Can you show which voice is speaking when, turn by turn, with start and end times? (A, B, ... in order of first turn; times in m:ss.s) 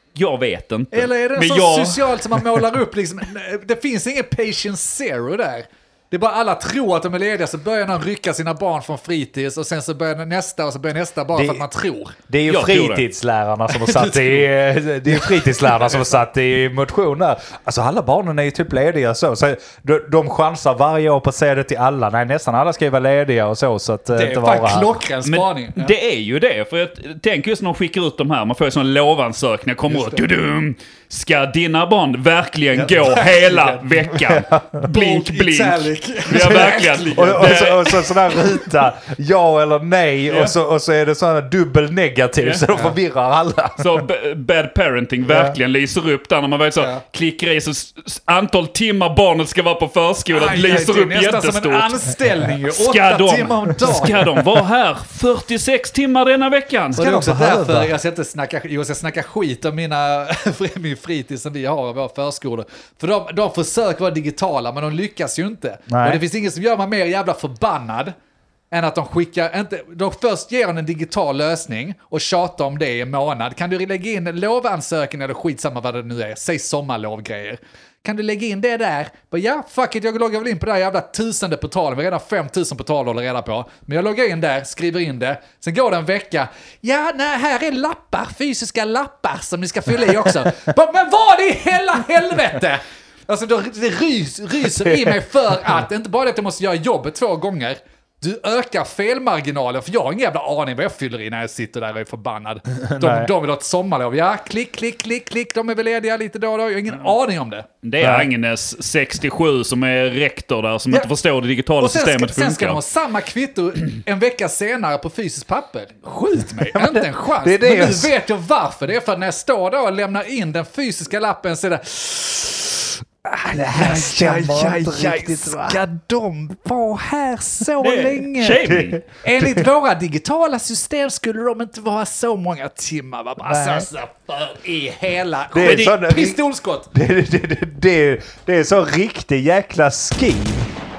0:00.1-0:02.2 A
0:00.9-0:12.2 B
0:11.3-0:11.6 C
0:12.3-0:25.0 C
0:12.5-0:13.0 A
0:13.7-0:14.4 B
0:15.1-0:15.9 B
0:24.1-0:25.9 B
0:25.2-0:38.0 A
0:29.9-0:30.2 B
0:32.7-0:33.8 B
0:34.1-0:34.8 C
0:34.8-0:37.9 B
0:37.1-0:44.0 C
0:40.3-0:40.6 B
0:42.4-0:42.6 A
0:43.8-0:52.0 A
0:45.3-0:45.6 C
0:46.8-0:47.0 B
0:50.3-0:54.3 B
0:52.7-0:57.0 A
0:57.0-0:57.9 C
0:57.0-1:08.1 B
1:05.9-1:06.2 C
1:08.7-1:47.7 B
1:34.8-1:35.1 C
1:42.7-1:43.3 C
1:47.8-1:52.8 A
1:48.0-1:48.3 C
1:51.8-2:08.7 B
1:56.6-1:58.1 C
2:03.5-2:05.8 C
2:07.8-2:09.0 A
2:08.6-2:09.6 C
2:09.2-2:16.9 B
2:13.4-2:13.9 C
2:15.5-2:20.7 C